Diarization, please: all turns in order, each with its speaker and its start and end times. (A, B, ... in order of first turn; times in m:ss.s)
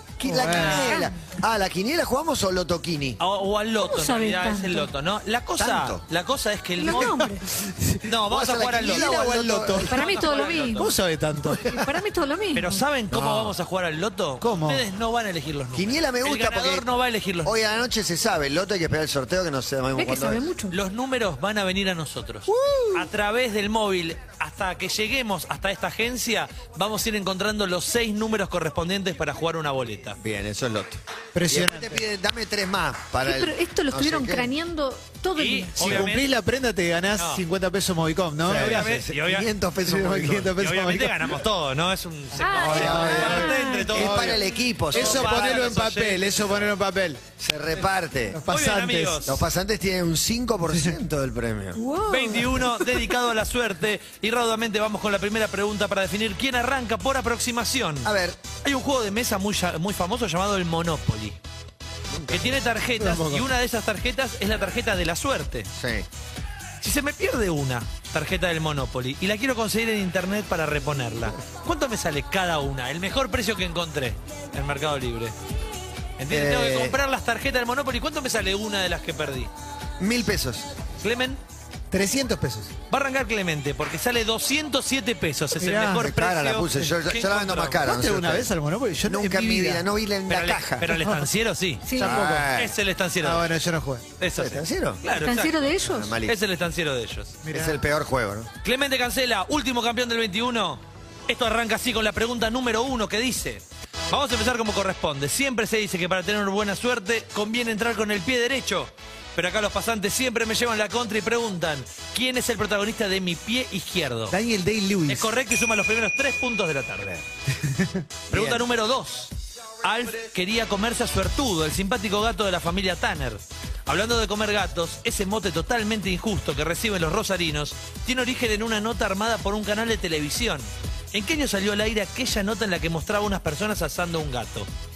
0:00.2-0:03.2 A
0:00.2-0:01.1 B
0:00.5-0:01.1 C
0:00.5-0:00.9 D
0:03.2-0:07.2 D
0:03.8-0:04.9 C
0:05.6-0:06.0 A
0:06.8-0:07.4 C
0:06.8-0:08.1 B
0:08.1-0:10.9 D
0:08.2-0:10.0 A
0:08.8-0:11.9 B
0:09.9-0:10.9 C
0:11.8-0:12.8 C
0:12.6-0:17.6 D
0:13.1-0:13.5 A
0:14.4-0:14.8 B
0:15.7-0:16.9 A
0:17.4-0:20.5 A
0:20.0-0:20.8 C
0:20.7-0:30.2 D
0:22.5-0:22.9 B
0:30.2-0:34.5 A
0:31.3-0:32.0 B
0:33.2-0:35.8 C
0:35.4-0:36.3 D
0:35.8-0:38.9 B
0:35.8-0:36.1 A
0:37.2-0:37.4 D
0:38.4-0:40.6 A
0:38.5-0:39.5 D
0:39.9-0:41.4 B
0:40.6-0:46.7 D
0:42.4-0:43.9 C
0:42.5-0:47.2 B
0:42.6-0:45.7 A
0:47.4-0:48.4 A
0:48.3-0:49.2 B
0:48.5-0:49.4 D
0:49.2-0:51.8 A
0:50.7-0:51.0 B
0:51.8-0:52.9 C
0:52.1-0:58.1 D
0:58.0-0:58.4 A
0:58.6-1:01.4 D
1:02.1-1:02.6 A
1:02.3-1:05.7 D
1:03.0-1:03.5 B
1:05.7-1:06.1 A
1:06.8-1:15.4 D
1:16.2-1:19.5 D
1:16.3-1:17.0 A
1:20.0-1:20.7 A
1:21.0-1:21.4 D
1:21.9-1:22.7 B
1:22.9-1:27.8 D
1:25.6-1:26.1 B
1:25.9-1:28.5 A
1:27.8-1:29.8 B
1:29.0-1:30.9 A
1:30.3-1:33.5 D
1:30.9-1:31.2 B
1:31.9-1:32.2 C
1:32.0-1:32.5 B
1:32.0-1:32.8 A
1:33.2-1:34.1 B
1:34.2-1:35.7 D
1:34.4-1:35.0 A
1:35.2-1:36.1 C
1:35.8-1:36.4 A
1:36.2-1:37.4 D
1:37.4-1:37.8 B
1:37.5-1:38.5 A
1:38.6-1:54.4 D
1:54.3-1:55.3 B
1:55.1-1:57.2 D
1:57.5-1:58.0 B
1:58.3-1:58.6 A
1:58.3-2:14.7 D